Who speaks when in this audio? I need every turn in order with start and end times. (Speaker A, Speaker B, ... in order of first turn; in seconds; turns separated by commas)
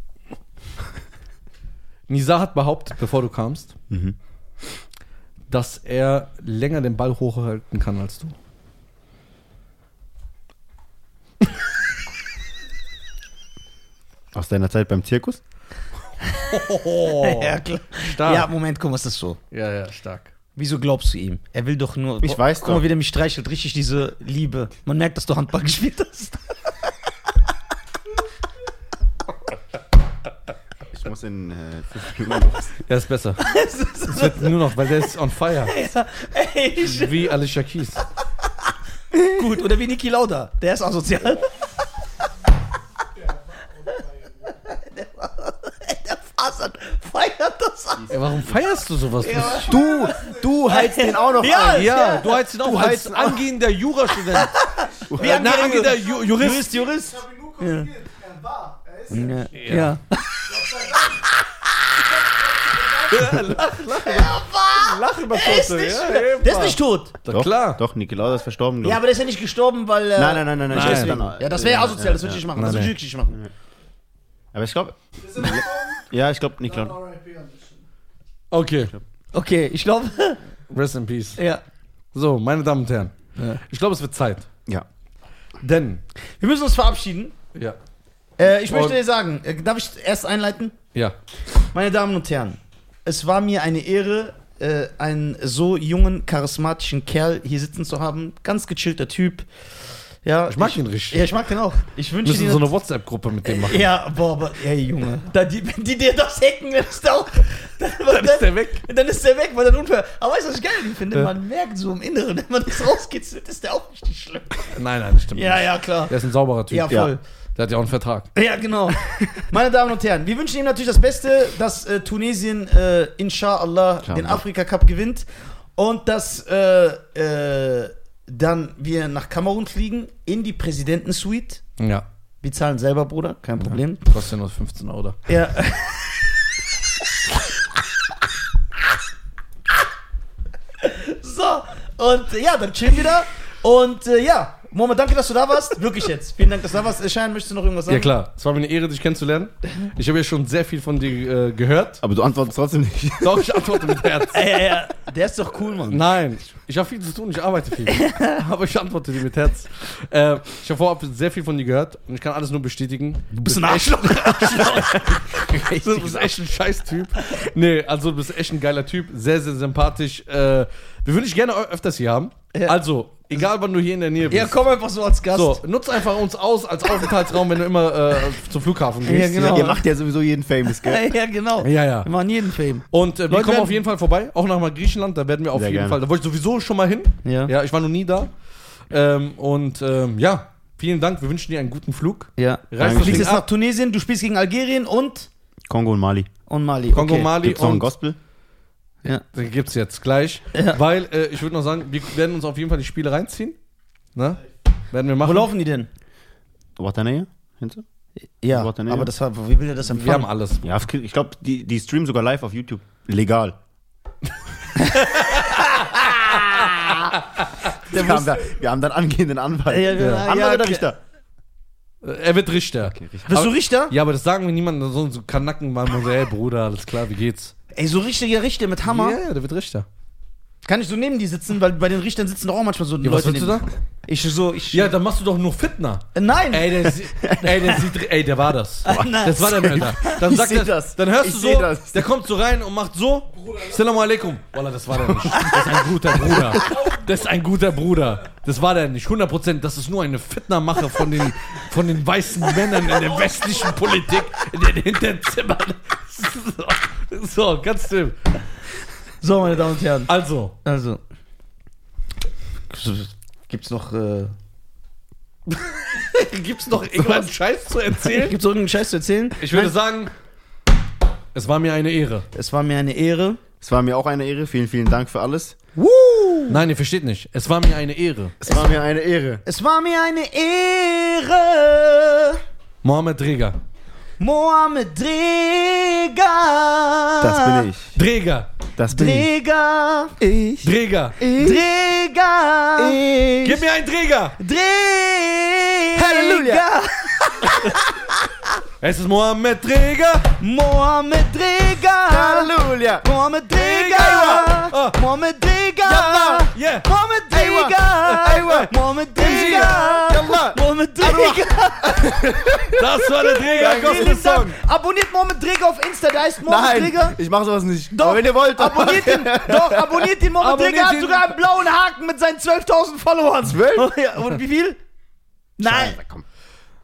Speaker A: 2.1-3.7, Speaker B: 3.9-4.2, Speaker A: 5.5-8.3, Speaker B: 14.3-15.4, Speaker A: 16.5-18.5, Speaker C: 17.0-19.4, Speaker A: 19.5-20.3, Speaker C: 20.5-26.4, Speaker B: 22.2-22.8, Speaker B: 30.9-32.8, Speaker A: 32.9-33.5, Speaker C: 33.4-34.5, Speaker A: 34.0-35.8, Speaker C: 35.6-37.3, Speaker A: 36.8-38.0, Speaker B: 39.1-39.6, Speaker C: 39.3-41.5, Speaker D: 43.5-44.5, Speaker C: 44.5-48.2, Speaker B: 48.0-48.6, Speaker A: 48.1-49.8, Speaker C: 49.2-50.1, Speaker B: 49.6-52.0, Speaker D: 49.7-50.6, Speaker C: 50.6-53.4, Speaker A: 51.5-54.6, Speaker B: 52.7-53.3, Speaker C: 54.2-57.9, Speaker B: 55.1-55.6, Speaker A: 55.2-56.7, Speaker D: 55.7-59.9, Speaker C: 59.1-60.4, Speaker A: 59.5-59.9, Speaker D: 60.5-61.3, Speaker D: 62.1-63.3, Speaker A: 63.1-67.8, Speaker C: 63.1-67.1, Speaker B: 67.3-69.0, Speaker C: 68.8-73.4, Speaker B: 70.2-72.4, Speaker A: 70.7-71.2, Speaker A: 72.5-72.9, Speaker B: 74.5-77.0, Speaker D: 75.2-76.1, Speaker D: 76.6-77.8, Speaker A: 78.5-78.9, Speaker C: 79.3-80.4, Speaker A: 80.7-81.4, Speaker C: 81.4-81.6, Speaker A: 82.1-84.5, Speaker A: 85.6-86.0, Speaker C: 86.4-87.3, Speaker C: 88.4-90.8, Speaker A: 88.5-88.9, Speaker C: 91.7-99.5, Speaker C: 100.2-102.7, Speaker A: 100.5-101.3, Speaker A: 102.2-103.9, Speaker C: 103.4-114.8, Speaker A: 108.1-108.8, Speaker A: 114.8-118.3, Speaker C: 115.3-116.1, Speaker C: 116.7-117.2, Speaker C: 118.3-131.6, Speaker A: 131.8-132.0, Speaker C: 132.4-134.0, Speaker A: 133.6-135.2, Speaker C: 135.3-136.0, Speaker C: 140.8-148.1, Speaker A: 147.9-152.0, Speaker B: 152.0-153.6, Speaker A: 153.2-154.7, Speaker C: 154.3-156.0, Speaker A: 155.9-174.6, Speaker C: 163.3-166.2, Speaker C: 174.3-175.6, Speaker A: 175.3-179.7, Speaker C: 179.0-179.8, Speaker B: 179.5-181.1, Speaker C: 180.8-183.8, Speaker A: 181.6-182.1, Speaker A: 182.9-188.3, Speaker B: 185.5-186.0, Speaker C: 187.2-187.5, Speaker A: 188.9-193.4, Speaker C: 192.4-195.3, Speaker B: 192.8-193.3, Speaker B: 195.7-196.3, Speaker C: 196.5-197.3, Speaker A: 196.9-197.9, Speaker B: 197.4-198.2, Speaker A: 199.3-203.6, Speaker C: 200.5-200.8, Speaker A: 204.1-204.4, Speaker A: 204.9-205.5, Speaker C: 205.2-205.9, Speaker B: 206.8-207.8, Speaker C: 208.4-210.3, Speaker B: 208.5-209.1, Speaker A: 209.9-210.6, Speaker B: 210.6-213.6, Speaker C: 214.8-216.0, Speaker A: 214.8-216.7, Speaker B: 217.8-221.0, Speaker C: 219.7-220.9, Speaker A: 220.0-220.3, Speaker A: 222.0-227.5, Speaker B: 222.8-223.3, Speaker C: 223.3-223.9, Speaker C: 227.7-229.2, Speaker A: 228.8-229.9, Speaker C: 230.6-234.9, Speaker A: 233.0-233.7, Speaker A: 234.7-258.2, Speaker C: 236.1-236.9, Speaker C: 238.8-240.4, Speaker B: 238.9-242.1, Speaker C: 245.4-245.6, Speaker C: 259.2-260.1, Speaker A: 260.1-260.5, Speaker C: 260.6-261.0, Speaker C: 262.7-264.3, Speaker A: 265.5-268.4, Speaker C: 266.7-267.3, Speaker C: 268.0-269.7, Speaker A: 269.4-270.1, Speaker A: 271.3-272.2, Speaker C: 272.3-273.4, Speaker B: 273.6-275.6, Speaker C: 275.8-276.6, Speaker A: 276.5-278.4, Speaker B: 278.4-279.4, Speaker C: 279.4-282.4, Speaker A: 282.8-283.6, Speaker C: 284.2-287.7, Speaker B: 287.2-288.0, Speaker A: 287.9-288.5, Speaker B: 288.8-289.3, Speaker C: 288.9-290.2, Speaker B: 290.2-291.6, Speaker A: 290.6-291.2, Speaker C: 291.2-293.6, Speaker B: 292.8-293.4, Speaker A: 293.4-294.4, Speaker C: 294.4-298.3, Speaker B: 296.0-296.6, Speaker A: 298.8-300.3, Speaker C: 300.4-312.2, Speaker B: 302.1-303.0, Speaker A: 303.5-305.0, Speaker B: 303.9-304.5, Speaker B: 305.9-306.4, Speaker A: 306.0-306.9, Speaker B: 307.3-312.8, Speaker A: 309.2-309.7, Speaker A: 312.8-314.6, Speaker C: 313.4-317.2, Speaker B: 313.5-314.2, Speaker B: 316.4-320.1, Speaker C: 317.9-324.8, Speaker A: 320.4-321.4, Speaker B: 323.4-323.9, Speaker C: 325.6-326.0, Speaker B: 325.6-326.2